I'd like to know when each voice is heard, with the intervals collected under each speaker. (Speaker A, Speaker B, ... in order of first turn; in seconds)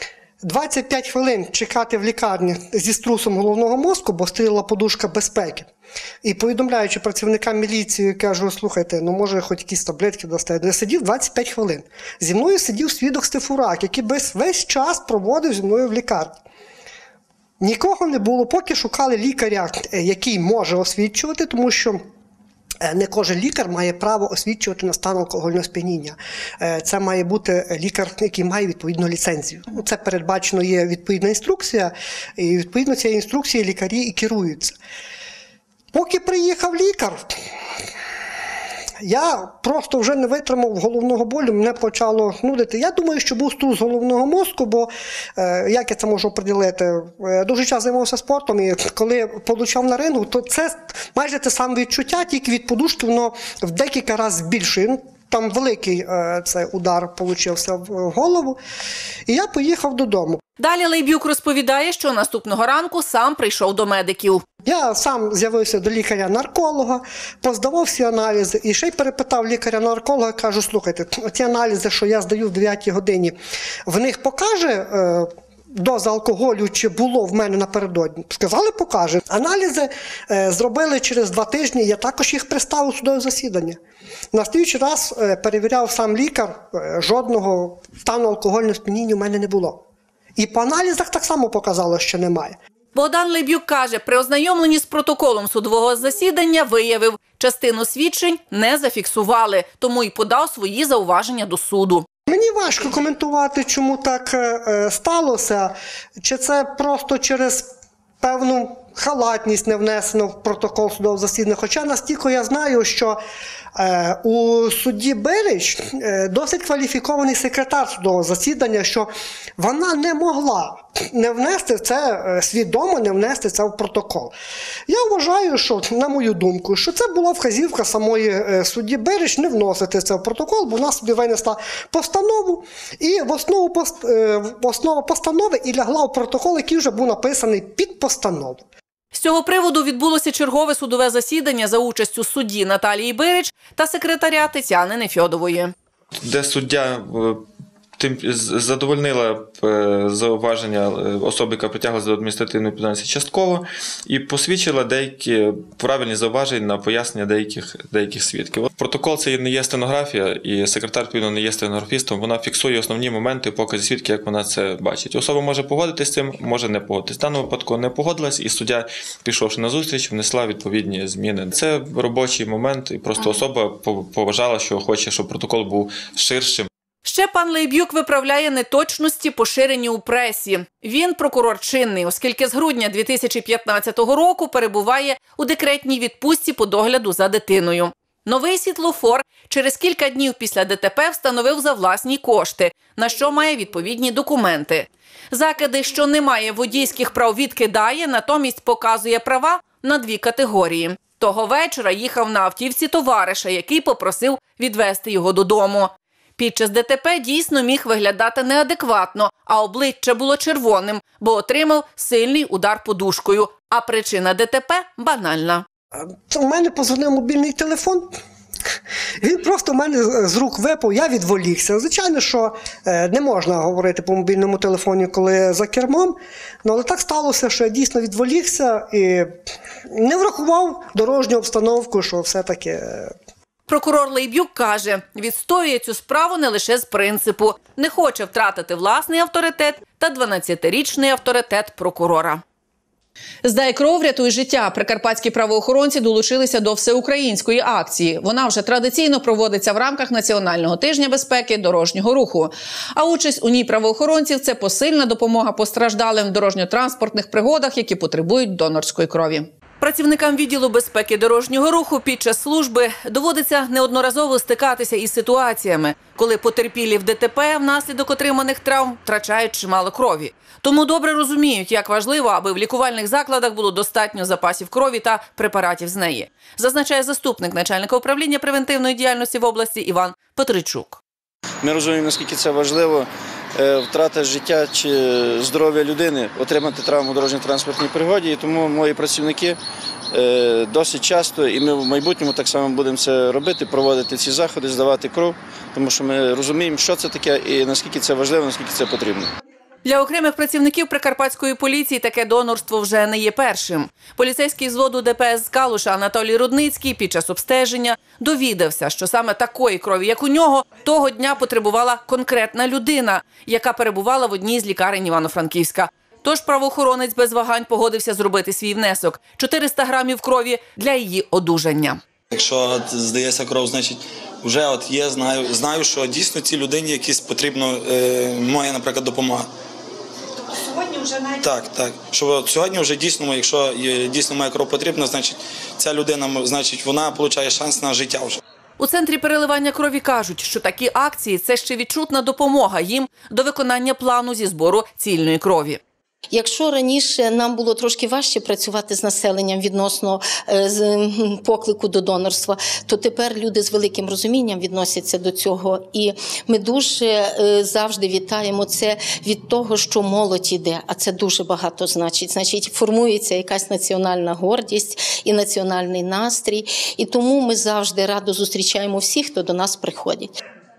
Speaker A: 0.4-5.7, 6.2-16.4, 17.6-22.0, 22.8-34.8, 35.9-37.4, 39.0-58.6, 59.3-60.4, 64.7-73.4, 73.9-83.8, 84.3-89.8, 90.4-92.6, 102.3-113.2, 113.8-124.3, 124.9-138.7, 215.9-218.1, 219.2-229.4, 229.9-233.1
Speaker B: 60.6-64.4, 93.0-102.1, 139.1-145.7, 177.1-215.6, 233.7-242.4, 243.4-281.0, 299.9-322.0, 338.8-345.8
Speaker C: 146.2-147.4, 148.0-176.7
Speaker D: 281.6-289.6, 290.1-299.3
Speaker E: 322.3-329.5, 331.3-338.4
Speaker F: 346.3-370.3